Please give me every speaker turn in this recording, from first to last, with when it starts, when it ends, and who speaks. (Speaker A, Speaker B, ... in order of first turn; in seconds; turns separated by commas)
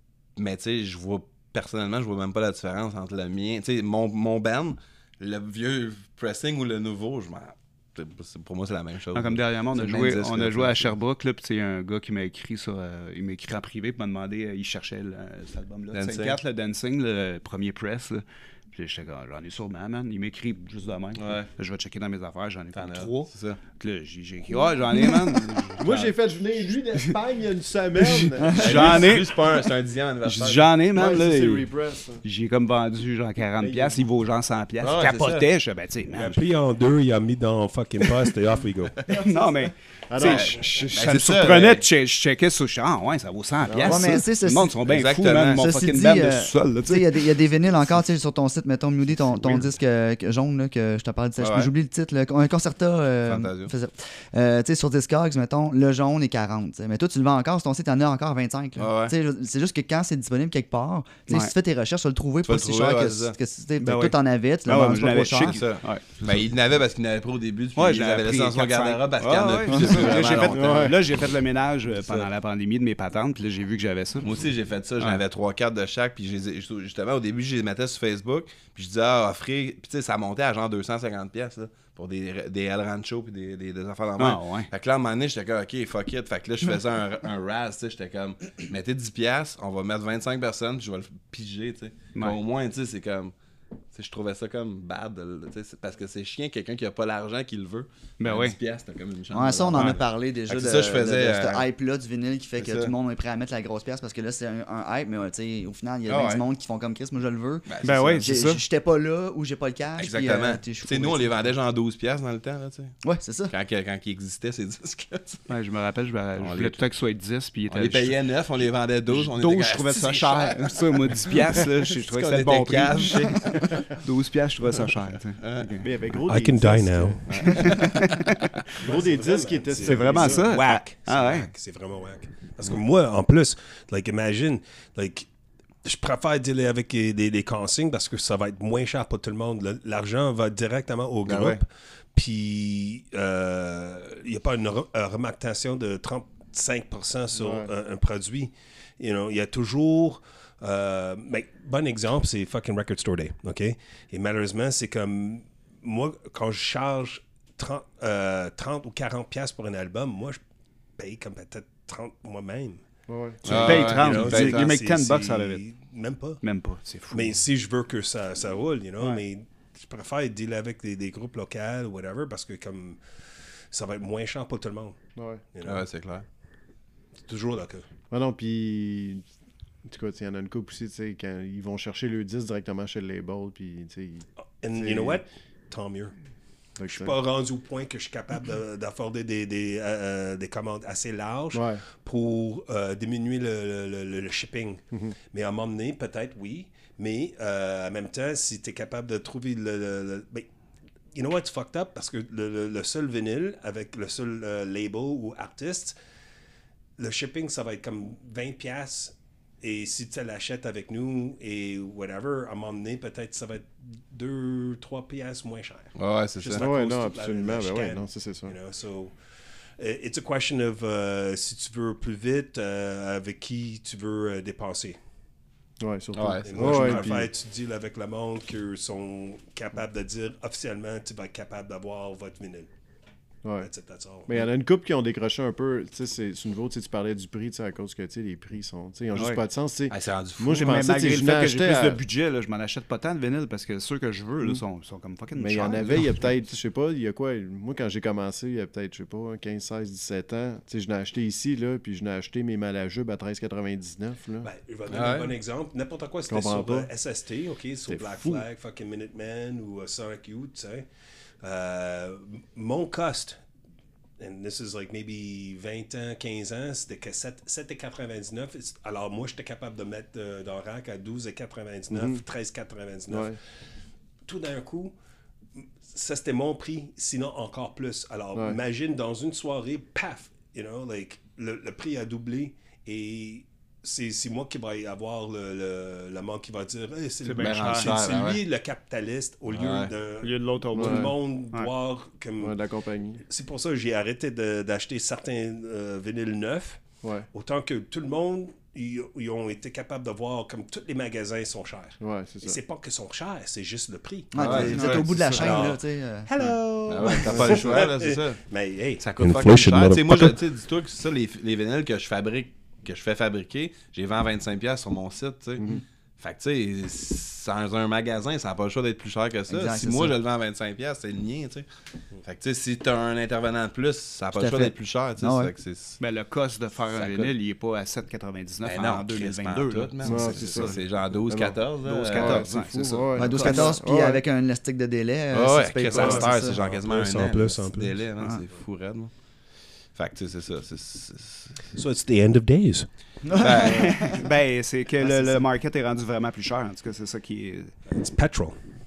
Speaker A: 0.3-10.9, Speaker B: 9.1-26.1, Speaker A: 15.9-16.4, Speaker A: 21.1-21.5, Speaker A: 22.7-23.6, Speaker A: 24.9-25.4, Speaker C: 25.8-28.9, Speaker B: 28.0-29.5, Speaker A: 28.5-30.7, Speaker B: 30.2-31.7, Speaker C: 30.9-32.2, Speaker B: 32.2-36.4, Speaker C: 33.6-34.0, Speaker A: 34.8-35.5, Speaker D: 36.1-39.0, Speaker B: 39.0-47.4, Speaker C: 40.1-40.6, Speaker A: 40.2-41.9, Speaker C: 43.6-44.1, Speaker E: 43.8-44.8, Speaker A: 44.8-45.6, Speaker E: 45.5-65.6, Speaker A: 51.4-51.7, Speaker A: 53.2-53.7, Speaker A: 58.8-59.1, Speaker B: 61.3-61.5, Speaker A: 62.4-63.4, Speaker B: 63.8-66.5, Speaker A: 65.4-71.0, Speaker B: 67.8-74.3, Speaker C: 70.3-71.0, Speaker A: 72.0-72.3, Speaker A: 74.2-93.3, Speaker B: 84.2-84.7, Speaker A: 93.9-101.7, Speaker B: 98.2-98.6, Speaker E: 99.3-111.5, Speaker A: 102.6-102.9, Speaker A: 106.1-106.4, Speaker A: 107.7-108.3, Speaker B: 107.8-108.6, Speaker A: 110.0-115.4, Speaker E: 113.0-113.5, Speaker B: 115.5-118.3, Speaker A: 116.4-116.8, Speaker A: 117.7-123.8, Speaker B: 119.1-125.9, Speaker A: 124.8-125.7, Speaker C: 125.8-127.2, Speaker D: 126.3-127.3, Speaker A: 127.3-128.3, Speaker B: 127.3-128.7, Speaker C: 128.8-130.5, Speaker D: 128.8-135.3, Speaker B: 129.8-131.5, Speaker D: 135.8-160.4, Speaker A: 141.2-141.6, Speaker C: 147.3-147.7, Speaker D: 161.0-162.8, Speaker C: 163.1-163.5, Speaker A: 163.4-164.7, Speaker D: 163.4-166.4, Speaker B: 163.5-165.6, Speaker B: 166.4-167.4, Speaker D: 167.1-173.0, Speaker D: 173.7-175.0, Speaker C: 175.2-175.4, Speaker D: 175.5-175.8, Speaker A: 175.6-176.2, Speaker D: 177.2-177.8, Speaker C: 178.1-179.2, Speaker C: 179.8-185.2, Speaker D: 184.6-186.1, Speaker C: 186.8-187.2, Speaker D: 186.9-200.5, Speaker C: 191.5-191.8, Speaker D: 201.1-205.9, Speaker D: 207.0-219.1, Speaker A: 215.9-216.7, Speaker C: 216.6-218.6, Speaker D: 219.8-225.0, Speaker C: 225.8-227.3, Speaker A: 226.1-227.2, Speaker D: 226.4-232.7, Speaker D: 233.6-234.5, Speaker C: 234.3-242.0, Speaker B: 239.1-239.4, Speaker A: 239.9-240.8, Speaker B: 240.6-246.4, Speaker C: 245.3-254.5, Speaker D: 254.4-260.9, Speaker A: 254.9-255.3, Speaker C: 256.3-256.9, Speaker C: 257.9-258.4, Speaker D: 261.4-263.4, Speaker D: 264.2-273.4, Speaker C: 271.9-272.2, Speaker C: 273.1-273.4, Speaker D: 274.2-274.9, Speaker D: 275.6-292.6, Speaker B: 287.2-287.9, Speaker A: 287.4-288.4, Speaker A: 289.5-289.9, Speaker B: 290.2-291.7, Speaker C: 290.7-291.1, Speaker C: 292.4-293.2, Speaker D: 293.3-296.8, Speaker C: 297.0-297.3, Speaker D: 297.3-310.4, Speaker C: 302.0-302.6, Speaker E: 304.3-306.4, Speaker A: 304.4-305.1, Speaker B: 304.6-305.5, Speaker A: 306.9-308.4, Speaker C: 307.3-307.6, Speaker A: 309.0-321.7, Speaker E: 319.5-320.1, Speaker A: 322.2-326.0, Speaker E: 324.3-325.5, Speaker B: 326.0-330.8, Speaker A: 326.9-327.3, Speaker A: 328.6-332.5, Speaker C: 330.0-334.2, Speaker B: 331.8-333.8, Speaker E: 333.2-336.6, Speaker A: 335.3-339.1, Speaker D: 335.9-338.0, Speaker A: 339.9-341.6, Speaker D: 341.7-342.9, Speaker E: 343.2-344.2, Speaker A: 343.4-344.0, Speaker B: 343.6-347.8, Speaker E: 345.0-345.4, Speaker D: 347.9-348.6